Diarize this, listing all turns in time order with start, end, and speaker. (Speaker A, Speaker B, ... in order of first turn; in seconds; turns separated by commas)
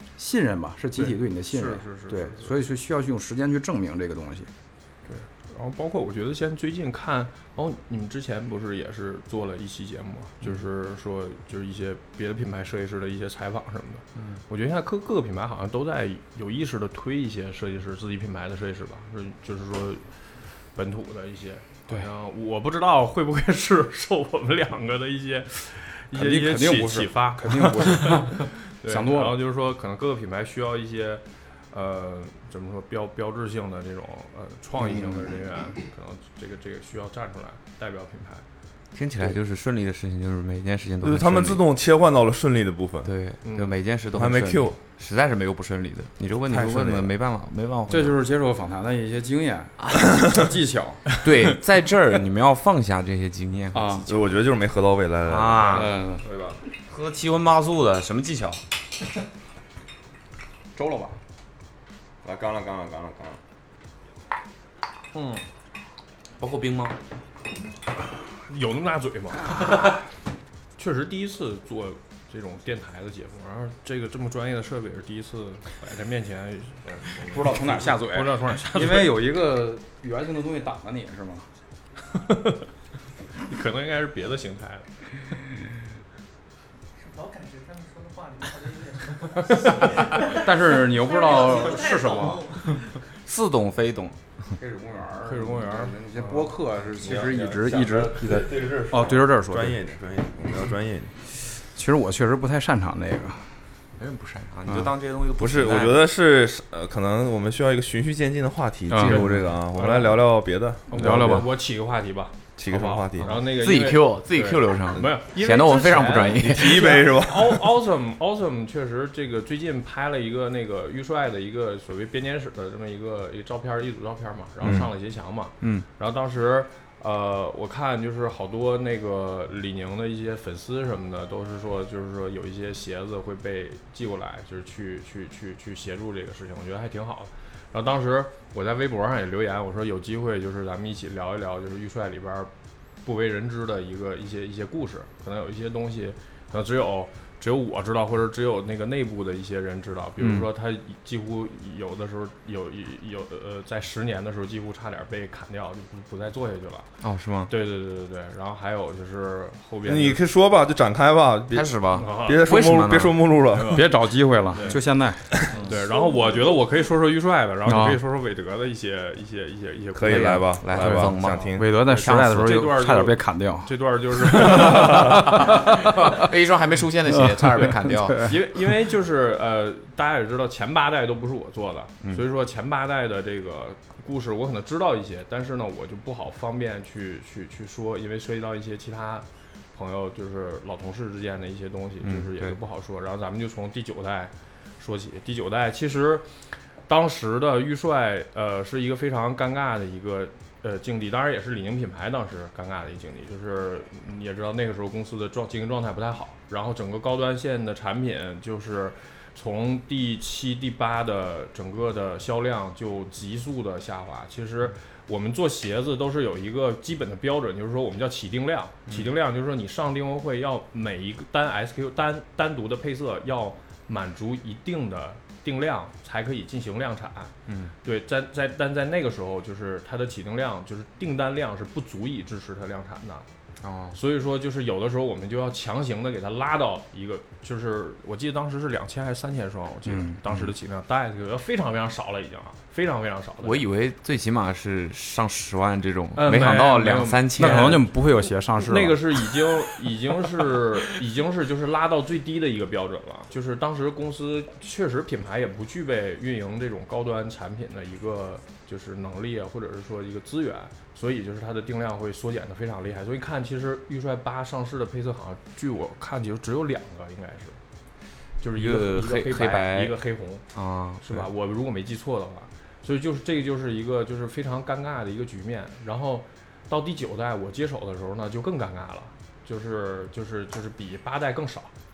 Speaker A: 0.2-4.5, Speaker B: 1.0-2.5, Speaker B: 5.1-20.0, Speaker B: 20.8-38.4, Speaker A: 26.1-29.4, Speaker A: 34.8-35.3, Speaker C: 38.9-41.6, Speaker D: 41.0-43.1, Speaker C: 43.0-48.2, Speaker B: 43.4-43.7, Speaker D: 44.1-44.8, Speaker A: 46.5-47.1, Speaker A: 47.9-51.1, Speaker C: 51.2-54.1, Speaker A: 53.7-54.1, Speaker D: 54.1-56.6, Speaker C: 55.3-55.9, Speaker A: 55.7-56.2, Speaker C: 56.9-58.6, Speaker A: 60.8-61.2, Speaker D: 62.2-63.4, Speaker B: 65.1-65.4, Speaker C: 66.4-67.0, Speaker B: 68.4-70.0, Speaker B: 70.8-79.2, Speaker A: 77.2-81.5, Speaker B: 82.2-82.6, Speaker B: 83.4-84.9, Speaker E: 87.0-92.9, Speaker A: 90.2-92.5, Speaker C: 93.1-94.2, Speaker A: 94.6-99.8, Speaker B: 95.2-96.5, Speaker D: 97.0-101.1, Speaker A: 101.7-103.5, Speaker C: 104.0-106.0, Speaker D: 105.4-111.4, Speaker A: 108.9-109.2, Speaker B: 109.7-110.2, Speaker B: 110.9-142.5, Speaker A: 110.9-111.5, Speaker D: 112.6-113.4, Speaker C: 113.2-117.0, Speaker D: 116.3-117.7, Speaker C: 125.6-125.9, Speaker B: 143.0-156.9, Speaker C: 150.2-150.5, Speaker C: 157.0-157.5, Speaker B: 157.5-160.2, Speaker D: 159.8-163.9, Speaker C: 161.5-163.3, Speaker B: 161.9-162.6, Speaker B: 163.5-163.9, Speaker A: 163.7-165.7, Speaker B: 164.5-164.8, Speaker B: 165.5-170.4, Speaker A: 167.7-168.0, Speaker D: 169.9-171.7, Speaker C: 170.1-172.5, Speaker A: 170.8-176.3, Speaker B: 171.4-175.6, Speaker C: 174.4-178.3, Speaker A: 177.1-178.3, Speaker B: 178.2-196.4, Speaker C: 192.0-192.6, Speaker B: 196.9-227.3, Speaker C: 227.5-227.7, Speaker B: 227.8-233.3, Speaker C: 233.6-234.0, Speaker B: 233.9-243.7, Speaker A: 239.9-240.2, Speaker C: 243.4-247.9, Speaker B: 246.2-247.9, Speaker A: 247.4-249.2, Speaker B: 248.6-267.6, Speaker B: 268.4-270.4, Speaker C: 268.6-270.0, Speaker C: 270.5-271.3, Speaker B: 271.0-281.7